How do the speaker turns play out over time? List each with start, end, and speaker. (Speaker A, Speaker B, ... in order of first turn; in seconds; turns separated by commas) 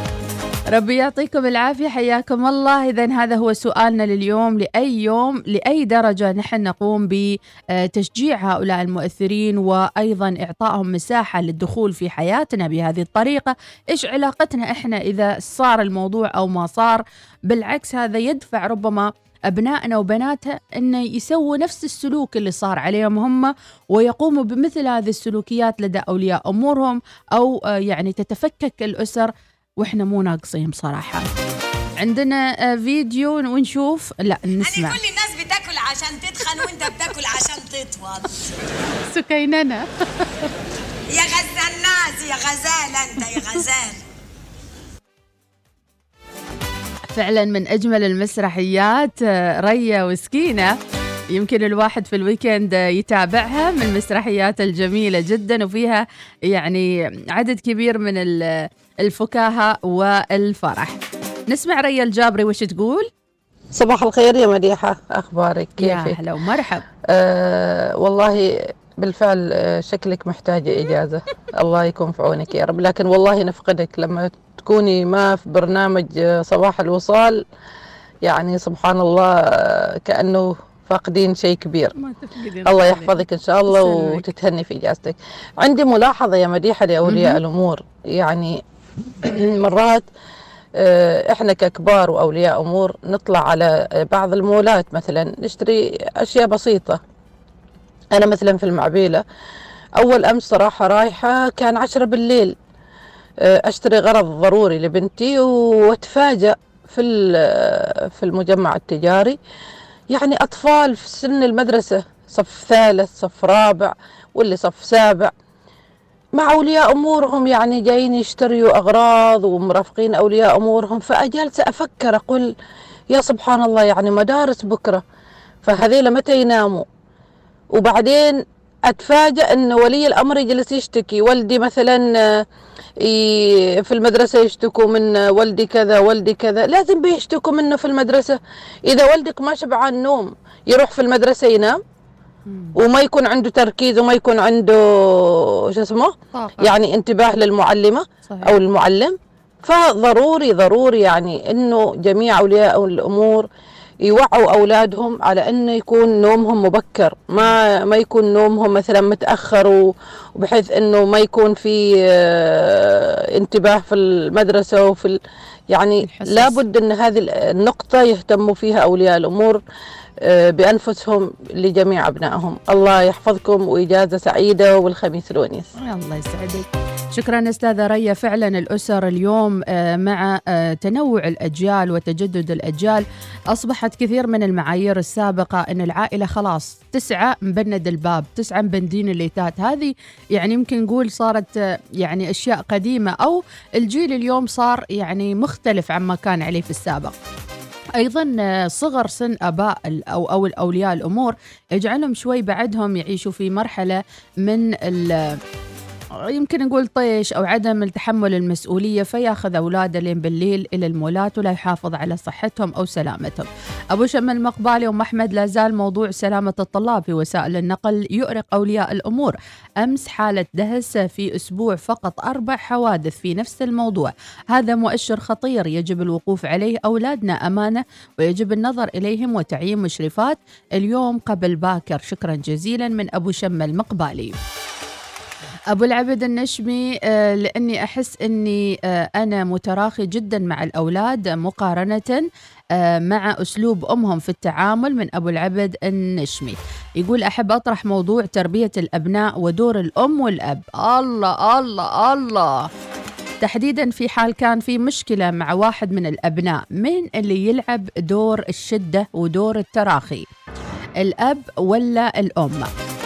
Speaker A: 0.7-31.2, Speaker A: 32.0-35.0, Speaker B: 34.6-38.4, Speaker A: 39.1-40.2, Speaker B: 41.1-44.0, Speaker A: 47.1-50.8, Speaker A: 51.3-61.0, Speaker A: 61.5-63.1, Speaker C: 63.7-66.2, Speaker A: 65.8-66.8, Speaker C: 67.1-77.4, Speaker C: 78.2-81.9, Speaker A: 81.9-84.3, Speaker C: 82.7-88.6, Speaker A: 87.1-87.4, Speaker C: 89.2-90.1, Speaker C: 90.8-97.0, Speaker C: 98.1-99.2, Speaker C: 100.0-102.6, Speaker C: 103.4-109.4, Speaker C: 110.1-115.3, Speaker C: 116.4-122.5, Speaker C: 123.1-125.0, Speaker C: 125.6-126.9, Speaker C: 127.7-132.4, Speaker C: 133.0-141.8, Speaker C: 142.7-153.5, Speaker A: 146.3-146.8, Speaker A: 148.3-148.6, Speaker C: 154.0-165.2, Speaker C: 165.7-169.6, Speaker A: 166.0-166.6, Speaker C: 170.2-175.7, Speaker A: 175.8-197.1, Speaker A: 198.0-205.4, Speaker A: 206.2-234.4, Speaker A: 235.7-252.7, Speaker A: 253.4-260.3, Speaker A: 261.0-262.7